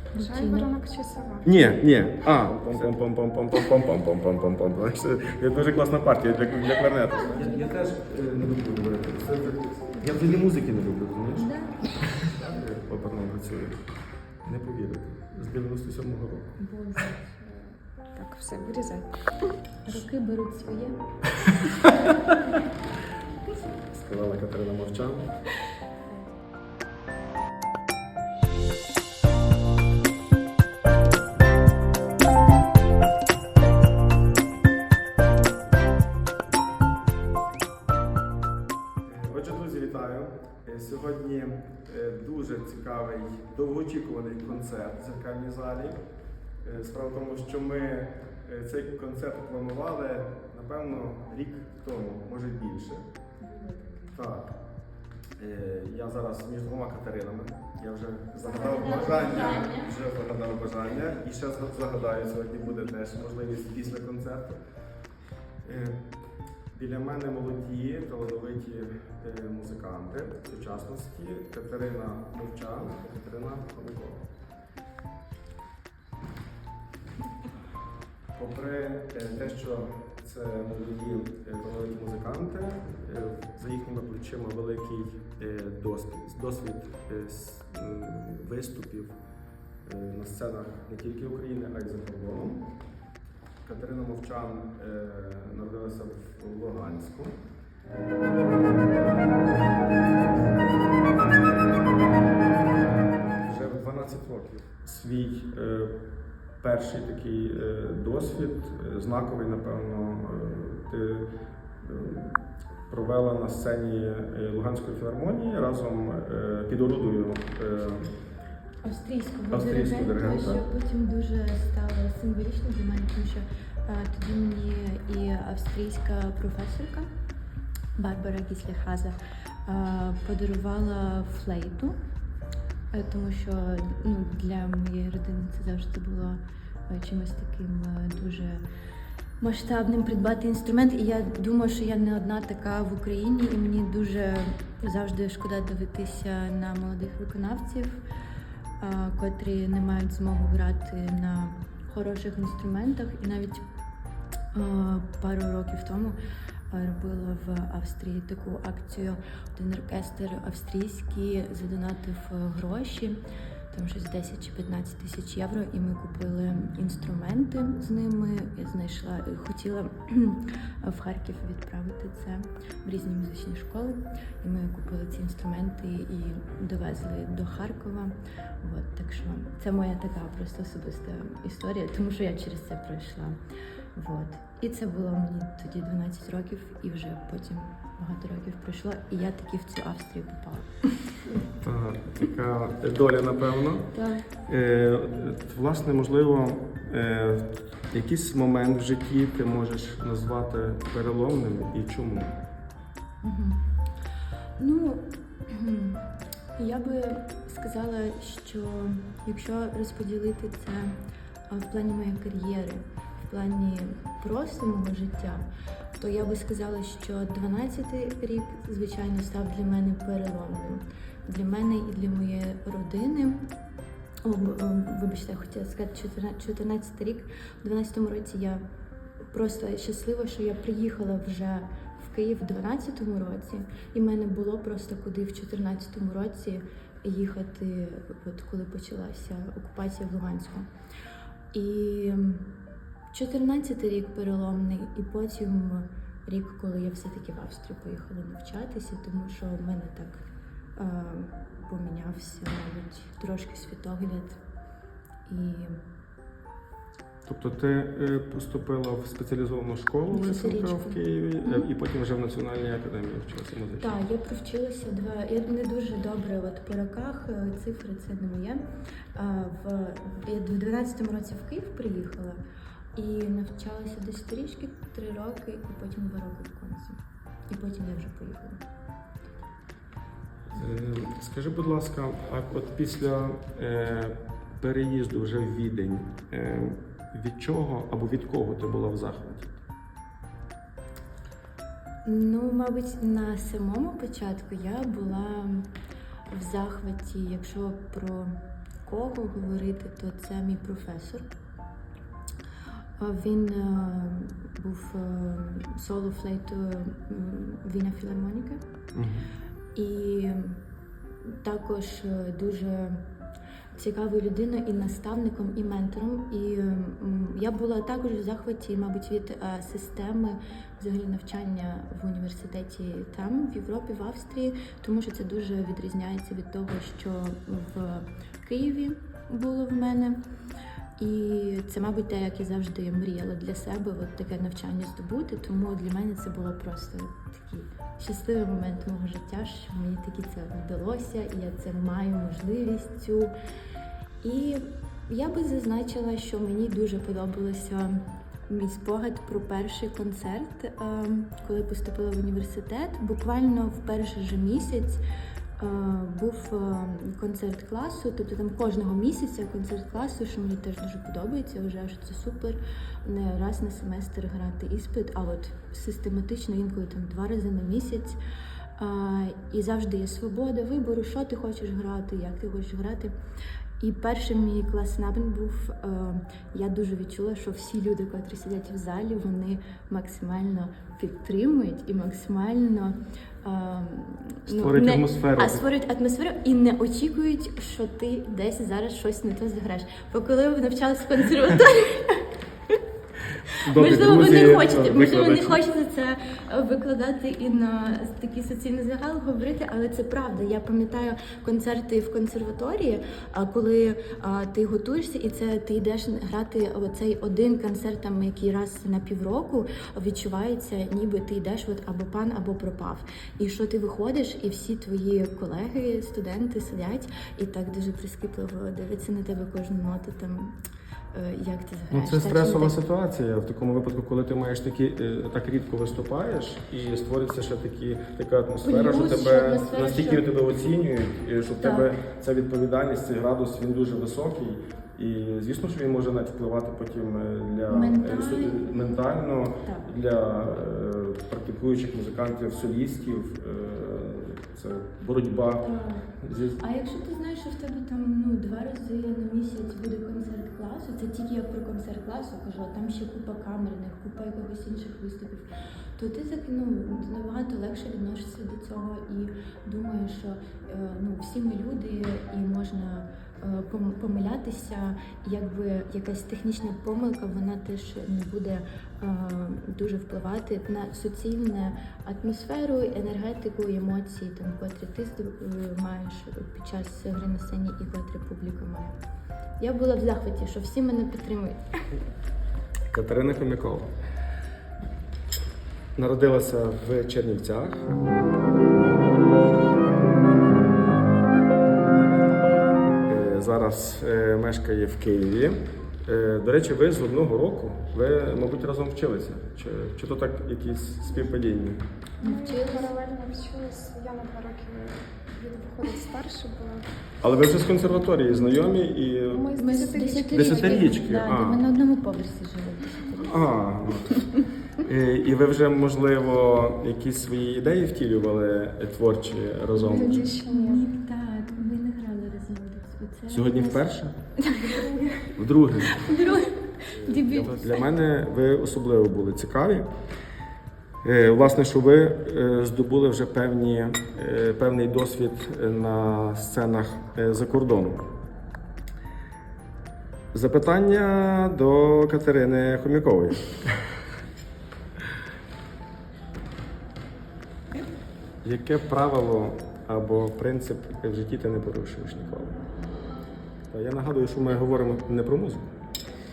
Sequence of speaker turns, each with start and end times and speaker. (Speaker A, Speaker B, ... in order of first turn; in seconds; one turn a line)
Speaker A: 0.1-0.7
Speaker B: 0.2-1.8
Speaker C: 1.4-13.8
Speaker A: 7.2-7.8
Speaker A: 11.3-12.3
Speaker C: 14.4-16.6
Speaker A: 16.6-17.3
Speaker B: 17.4-19.3
Speaker A: 19.8-21.0
Speaker C: 21.4-22.3
Speaker C: 23.5-25.4
Speaker C: 39.0-46.0
Speaker C: 46.6-53.0
Speaker A: 53.4-54.1
Speaker C: 54.1-54.5
Speaker C: 55.4-64.6
Speaker A: 58.4-59.9
Speaker C: 65.6-66.0
Speaker C: 66.7-74.3
Speaker C: 78.3-89.2
Speaker C: 89.8-92.7
Speaker C: 93.6-97.4
Speaker C: 98.5-106.0
Speaker C: 106.6-111.3
Speaker C: 111.8-118.0
Speaker A: 118.8-127.0
Speaker C: 119.5-120.6
Speaker A: 128.0-132.0
Speaker A: 132.9-138.6
Speaker A: 139.4-148.0
Speaker A: 148.8-153.6
Speaker A: 154.5-156.2
Speaker A: 156.7-163.2
Speaker A: 163.7-183.4
Speaker A: 183.9-191.4
Speaker C: 191.6-193.9
Speaker A: 193.9-194.2
Speaker C: 194.4-202.3
Speaker A: 203.2-203.6
Speaker A: 204.6-210.9
Speaker A: 211.5-215.5
Speaker A: 216.0-223.4
Speaker A: 224.2-228.6
Speaker A: 229.3-240.7
Speaker A: 241.5-242.5
Speaker A: 243.1-250.2
Speaker A: 250.8-254.4
Speaker A: 255.3-255.7
Speaker C: 257.2-263.9
Speaker A: 260.1-261.7
Speaker A: 263.8-268.6
Speaker A: 269.1-272.4
Speaker A: 272.9-277.0
Speaker A: 277.5-278.6
Speaker C: 280.5-289.6
Speaker A: 292.0-295.7
Speaker A: 296.3-301.2
Speaker A: 303.0-308.6
Speaker C: 308.9-309.3
Speaker A: 309.7-310.6
Speaker A: 311.2-313.0
Speaker A: 313.7-330.2
Speaker A: 331.0-343.3
Speaker A: 344.2-355.0
Speaker A: 355.6-368.2
Speaker A: 368.8-373.1
Speaker A: 373.8-392.8
Speaker C: 384.5-385.6
Speaker C: 393.6-395.6
Speaker A: 393.7-420.6
Speaker A: 421.1-422.8
Speaker C: 421.9-445.6
Speaker A: 428.6-430.2
Speaker A: 431.6-431.9
Speaker A: 437.7-438.7
Speaker A: 445.6-446.1
Speaker C: 446.2-446.6
Speaker A: 446.6-478.9
Speaker A: 479.6-481.6
Speaker C: 482.9-483.9
Speaker C: 485.9-488.0
Speaker C: 493.0-501.8
Speaker A: 502.2-502.9
Speaker B: 502.2-506.9
Speaker C: 507.2-509.5
Speaker B: 509.3-511.0
Speaker A: 509.6-513.5
Speaker C: 510.3-511.6
Speaker C: 513.2-514.2
Speaker A: 514.1-514.4
Speaker C: 514.8-520.3
Speaker B: 519.7-520.9
Speaker A: 519.8-525.2
Speaker C: 523.3-524.1
Speaker C: 525.3-526.1
Speaker A: 525.9-527.9
Speaker C: 526.9-529.9
Speaker C: 531.0-538.1
Speaker C: 540.3-543.7
Speaker C: 548.4-552.6
Speaker C: 553.7-555.7